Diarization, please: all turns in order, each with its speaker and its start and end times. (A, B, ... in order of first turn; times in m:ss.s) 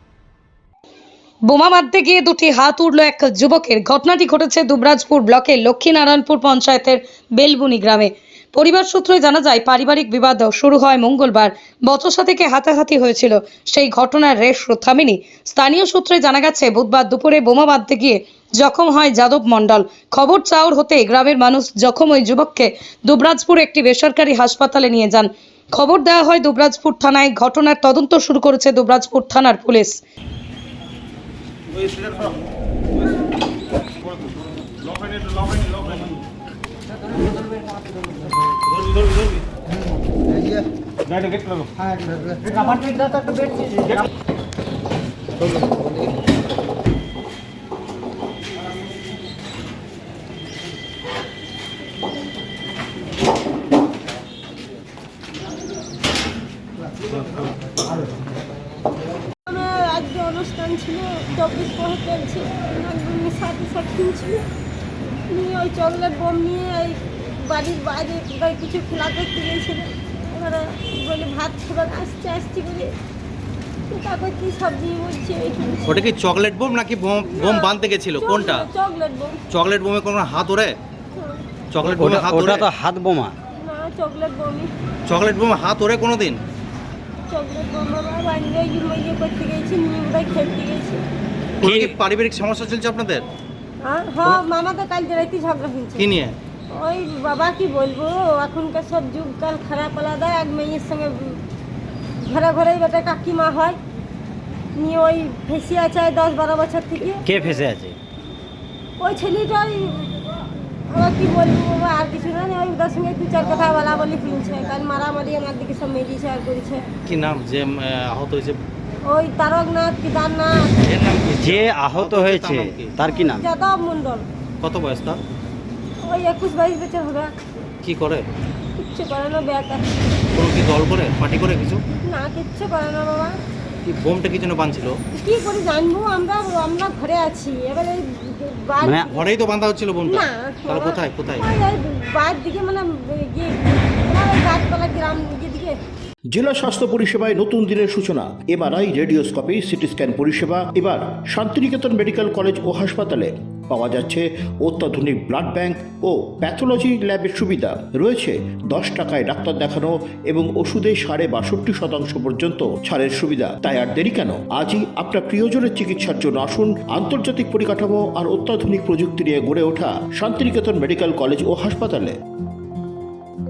0:01.5-0:30.0 A
0:59.5-1:04.5 B
1:05.3-1:12.9 B
1:13.9-1:16.1 B
1:15.8-1:18.7 C
1:17.3-1:19.4 B
1:19.5-1:20.8 C
1:21.2-1:21.4 B
1:21.7-1:22.7 C
1:21.8-1:23.4 D
1:23.6-1:24.7 B
1:25.1-1:26.4 C
1:27.3-1:31.0 B
1:31.6-1:33.2 C
1:31.6-1:31.9 D
1:33.8-1:36.1 B
1:36.0-1:36.3 C
1:36.7-1:41.4 B
1:42.2-1:43.8 B
1:44.8-1:47.3 B
1:47.2-1:48.0 D
1:49.0-1:50.2 B
1:50.9-1:56.9 B
1:57.1-1:58.6 C
1:59.0-2:00.7 B
2:00.8-2:03.1 C
2:01.3-2:03.4 D
2:03.0-2:04.2 B
2:04.6-2:05.2 C
2:06.0-2:07.3 B
2:07.8-2:08.3 C
2:08.8-2:09.9 B
2:10.3-2:11.8 C
2:12.0-2:13.4 B
2:13.8-2:15.0 C
2:15.1-2:19.3 B
2:18.8-2:19.1 D
2:19.1-2:21.5 C
2:20.0-2:25.8 B
2:26.3-2:52.2 E